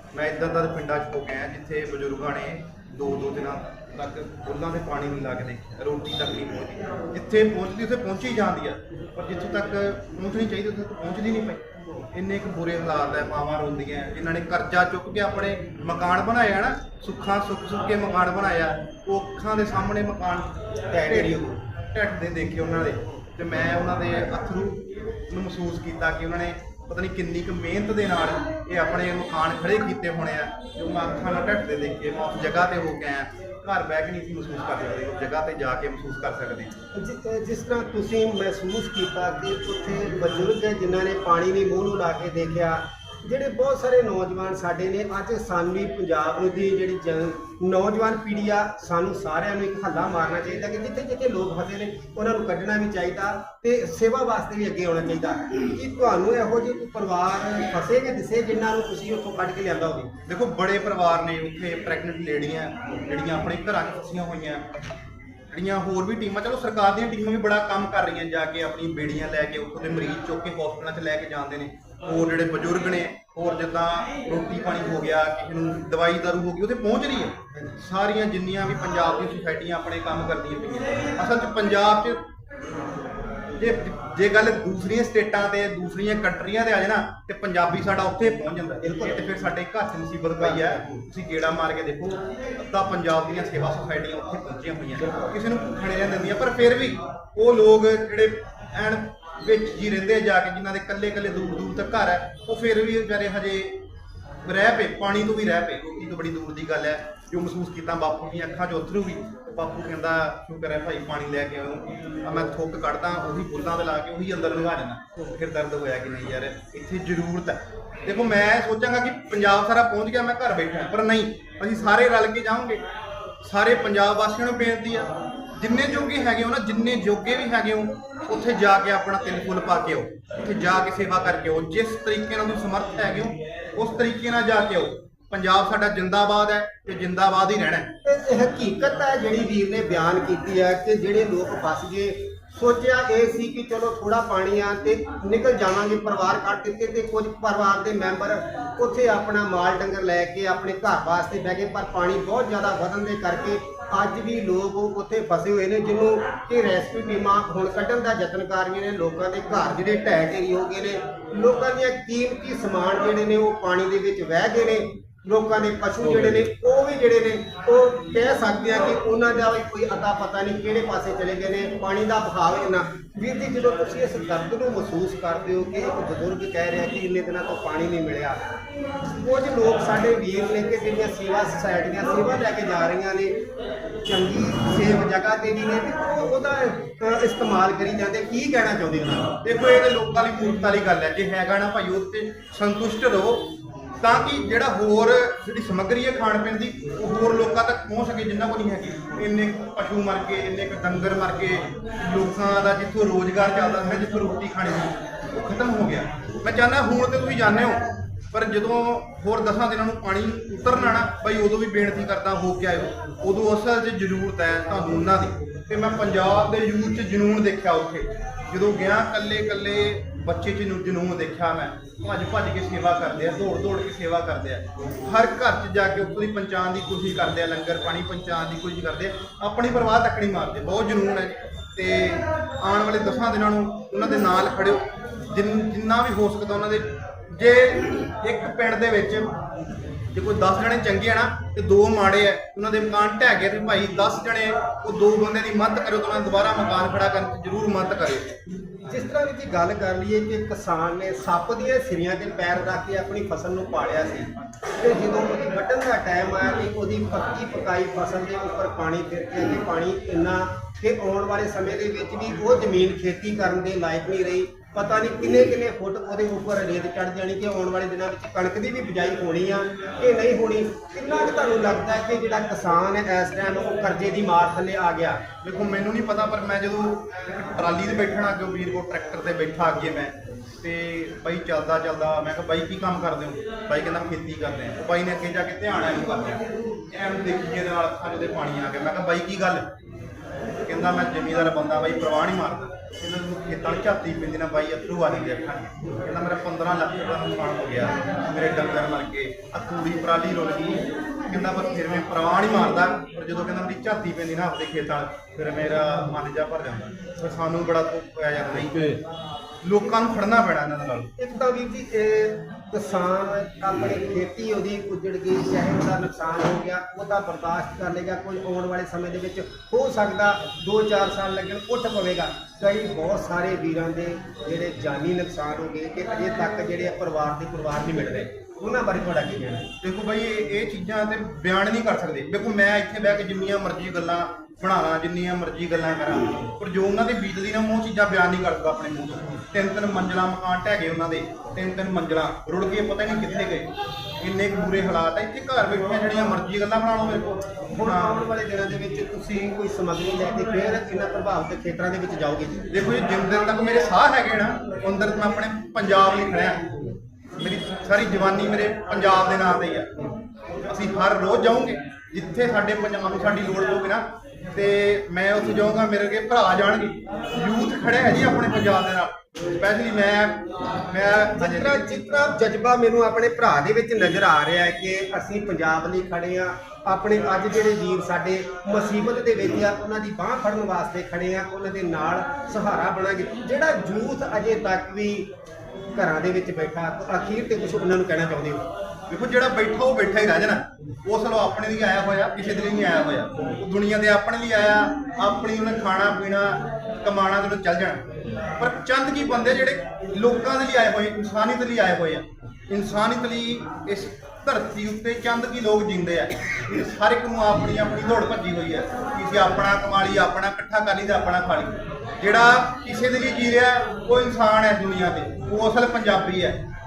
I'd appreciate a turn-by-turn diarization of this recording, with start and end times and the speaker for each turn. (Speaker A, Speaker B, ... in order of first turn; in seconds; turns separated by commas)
Speaker A: 0.1-36.7, Speaker B: 20.9-21.4, Speaker B: 36.9-60.1, Speaker A: 60.3-64.7, Speaker A: 65.5-82.2, Speaker A: 83.6-103.8, Speaker B: 88.8-89.3, Speaker B: 90.4-90.9, Speaker A: 104.5-122.8, Speaker A: 123.4-137.9, Speaker B: 138.1-178.4, Speaker B: 179.2-183.3, Speaker B: 184.1-189.3, Speaker A: 189.4-193.5, Speaker A: 194.0-239.3, Speaker A: 240.1-248.4, Speaker B: 248.9-275.2, Speaker A: 275.4-289.7, Speaker A: 290.6-309.0, Speaker A: 309.6-311.1, Speaker B: 311.2-329.7, Speaker A: 329.8-348.2, Speaker B: 347.7-352.6, Speaker A: 352.7-356.7, Speaker A: 357.4-359.9, Speaker A: 360.7-370.4, Speaker A: 370.9-371.9, Speaker B: 371.4-385.3, Speaker B: 385.9-388.7, Speaker A: 389.1-398.0, Speaker A: 398.6-416.6